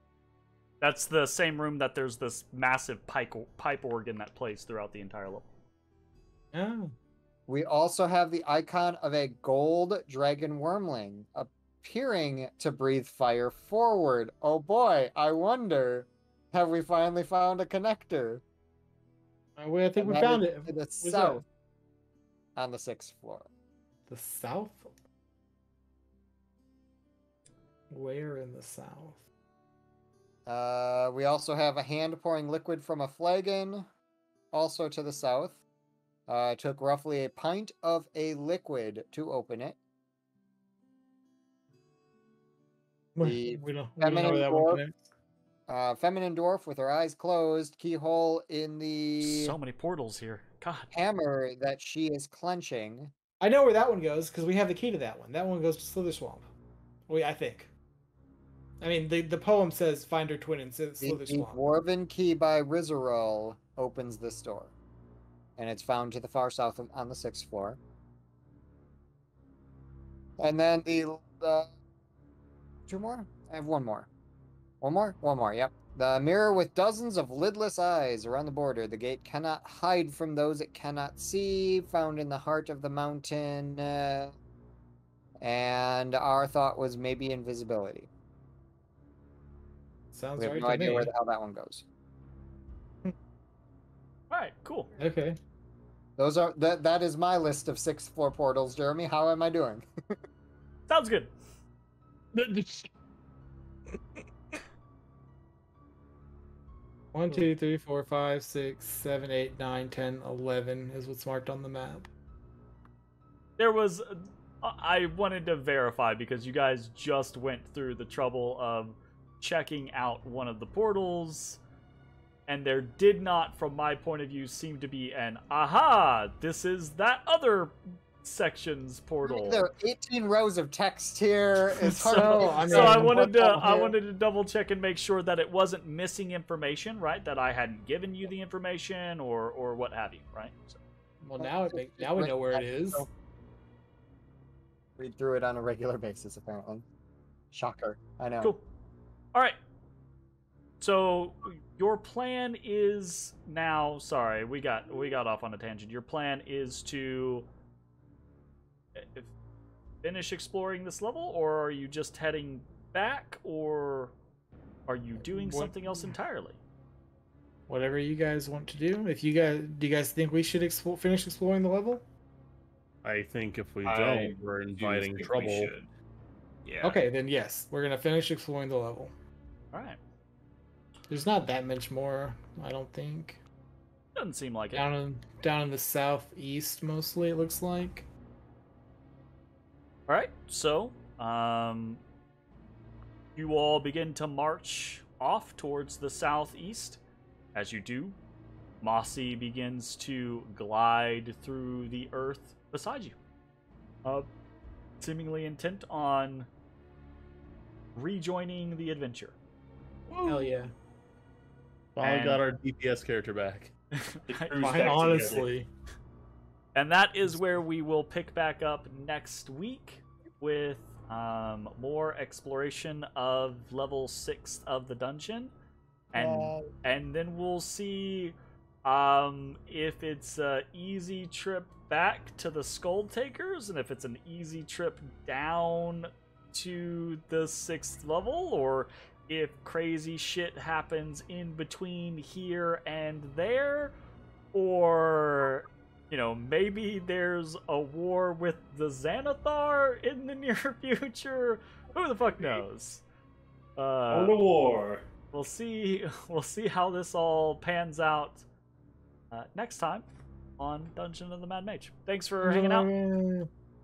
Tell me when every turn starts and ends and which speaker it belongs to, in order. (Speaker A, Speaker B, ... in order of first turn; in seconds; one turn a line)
Speaker A: 0.8-5.5
Speaker B: 6.5-6.9
Speaker C: 7.5-18.4
Speaker B: 19.6-21.4
Speaker C: 20.0-21.4
Speaker C: 22.6-23.5
Speaker B: 24.1-24.9
Speaker B: 27.9-29.2
Speaker C: 30.5-33.9
Speaker C: 34.5-35.6
Speaker C: 36.3-39.8
Speaker B: 43.1-45.1
Speaker C: 43.2-44.8
Speaker C: 45.7-49.6
Speaker A: 49.2-50.9
Speaker C: 50.9-53.1
Speaker B: 53.4-56.5
Speaker B: 57.1-57.7
Speaker B: 58.8-61.6
Speaker C: 61.0-64.7
Speaker C: 65.6-67.8
Speaker C: 70.4-71.7
Speaker C: 72.9-74.1
Speaker C: 74.8-84.4
Speaker C: 85.4-88.1
Speaker B: 90.1-91.1
Speaker C: 90.4-91.8
Speaker A: 94.3-94.9
Speaker B: 95.0-95.4
Speaker C: 96.2-99.9
Speaker A: 100.9-101.3
Speaker D: 102.3-102.9
Speaker B: 107.1-112.1
Speaker A: 113.6-121.6
Speaker A: 122.5-129.7
Speaker C: 129.2-133.9
Speaker B: 131.9-133.8
Speaker A: 132.1-140.8
Speaker B: 141.2-143.1
Speaker C: 141.4-143.1
Speaker C: 145.0-146.8
Speaker C: 147.5-148.5
Speaker A: 150.8-157.5
Speaker A: 158.9-159.3
Speaker A: 160.0-164.1
Speaker A: 164.9-166.6
Speaker B: 165.2-166.2
Speaker B: 167.7-172.1
Speaker D: 173.0-175.7
Speaker E: 173.8-175.9
Speaker E: 176.7-177.0
Speaker B: 176.8-179.1
Speaker A: 179.7-180.0
Speaker B: 181.1-183.4
Speaker A: 184.2-184.9
Speaker B: 184.7-188.1
Speaker A: 190.1-192.0
Speaker A: 193.4-197.0
Speaker A: 197.6-198.2
Speaker A: 198.8-203.2
Speaker A: 205.0-206.5
Speaker A: 207.9-209.4
Speaker B: 210.2-210.7
Speaker D: 212.0-213.7
Speaker A: 212.0-212.4
Speaker A: 214.0-215.0
Speaker E: 214.3-215.5
Speaker B: 214.6-215.7
Speaker A: 216.8-225.5
Speaker A: 226.1-243.9
Speaker A: 244.5-253.0
Speaker A: 253.8-254.4
Speaker E: 254.1-255.1
Speaker A: 255.3-258.4
Speaker A: 259.3-260.1
Speaker A: 260.6-262.9
Speaker B: 262.4-263.5